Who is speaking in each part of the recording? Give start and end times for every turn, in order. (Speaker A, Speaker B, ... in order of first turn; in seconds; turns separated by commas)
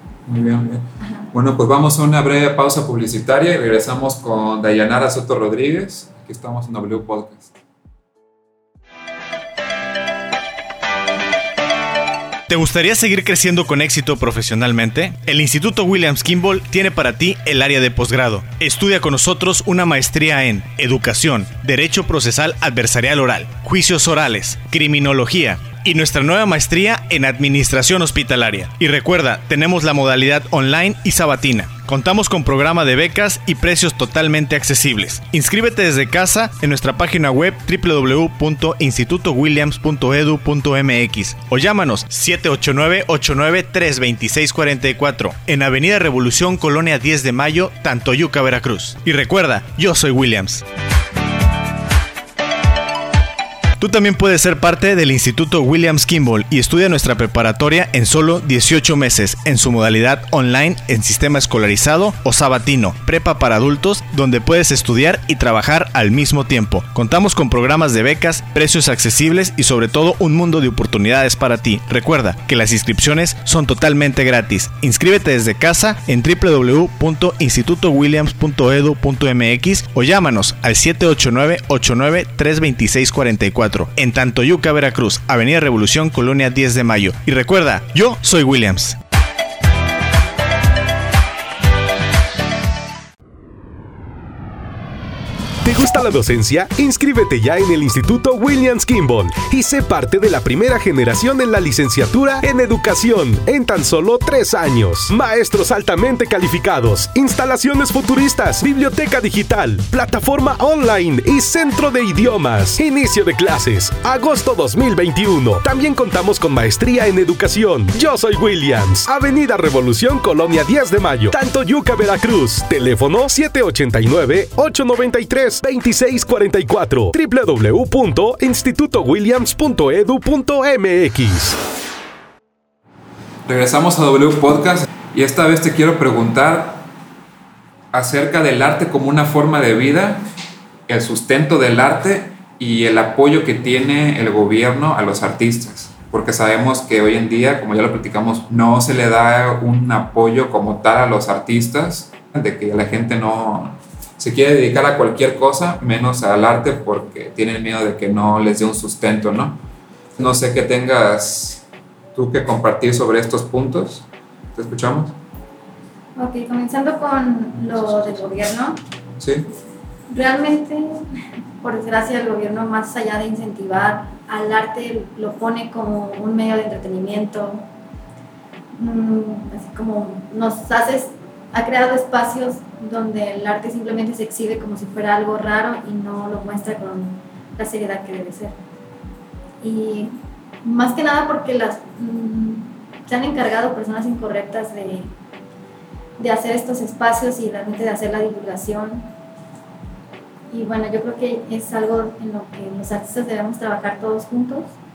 Speaker A: 0.3-7.5, Speaker B: 1.0-1.3, Speaker C: 12.5-50.6, Speaker C: 53.8-89.0, Speaker D: 95.6-131.6, Speaker A: 133.5-136.9, Speaker A: 137.9-140.2, Speaker A: 140.9-159.6, Speaker A: 160.2-165.2, Speaker B: 166.2-168.8, Speaker A: 169.2-169.5, Speaker B: 170.1-177.7, Speaker B: 178.7-188.6, Speaker B: 189.6-195.1, Speaker B: 196.2-199.1, Speaker B: 200.5-204.7